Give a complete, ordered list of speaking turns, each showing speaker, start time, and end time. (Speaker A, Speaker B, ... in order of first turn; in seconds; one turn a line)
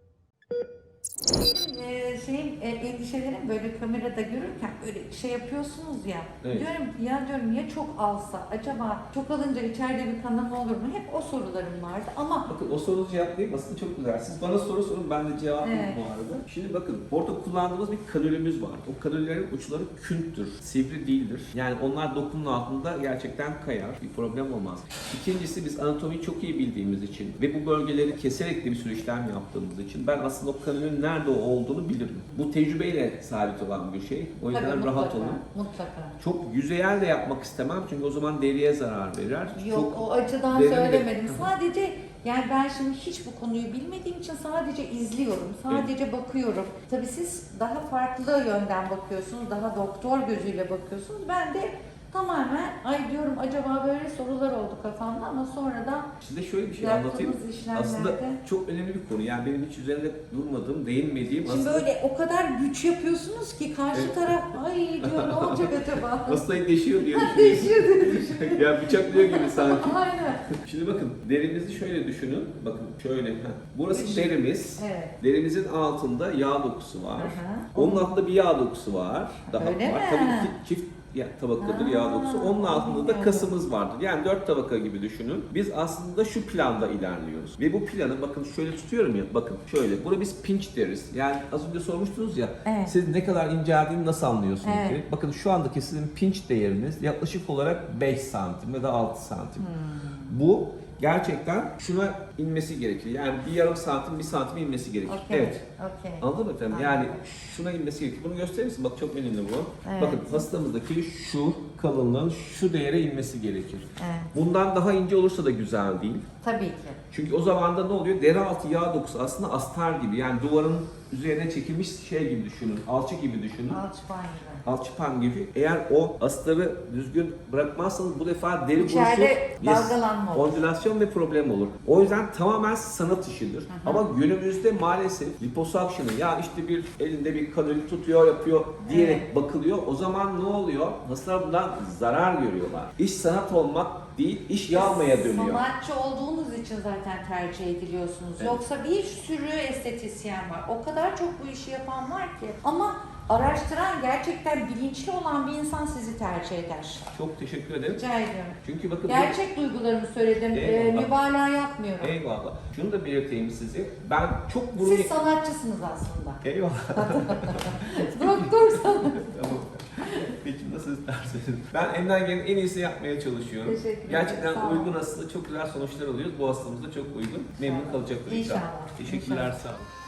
Speaker A: 1.4-12.5
Speaker B: 6.4-6.7
Speaker B: 12.5-35.4
Speaker A: 15.6-16.0
Speaker A: 34.5-36.2
Speaker B: 36.2-41.5
Speaker A: 39.5-56.1
Speaker B: 56.2-61.9
Speaker A: 56.8-58.4
Speaker A: 61.4-70.4
Speaker B: 63.9-99.7
Speaker A: 73.9-75.2
Speaker A: 77.2-78.1
Speaker A: 79.5-80.5
Speaker A: 81.6-83.5
Speaker A: 92.6-92.9
Speaker A: 94.6-95.0
Speaker A: 99.6-100.4
Speaker B: 100.3-105.6
Speaker A: 105.0-107.2
Speaker B: 106.2-116.2
Speaker A: 109.8-110.5
Speaker A: 114.0-114.3
Speaker A: 116.4-117.0
Speaker B: 117.1-123.8
Speaker A: 123.7-124.7
Speaker B: 124.6-145.6
Speaker A: 128.8-130.6
Speaker A: 133.7-134.1
Speaker A: 138.8-139.3
Speaker A: 144.7-157.1
Speaker B: 157.1-158.0
Speaker A: 157.9-162.2
Speaker B: 158.6-159.4
Speaker B: 160.5-161.1
Speaker B: 162.0-165.1
Speaker A: 164.8-166.4
Speaker B: 166.4-179.9
Speaker A: 166.9-169.4
Speaker A: 170.0-170.3
Speaker A: 173.6-174.9
Speaker A: 177.6-179.6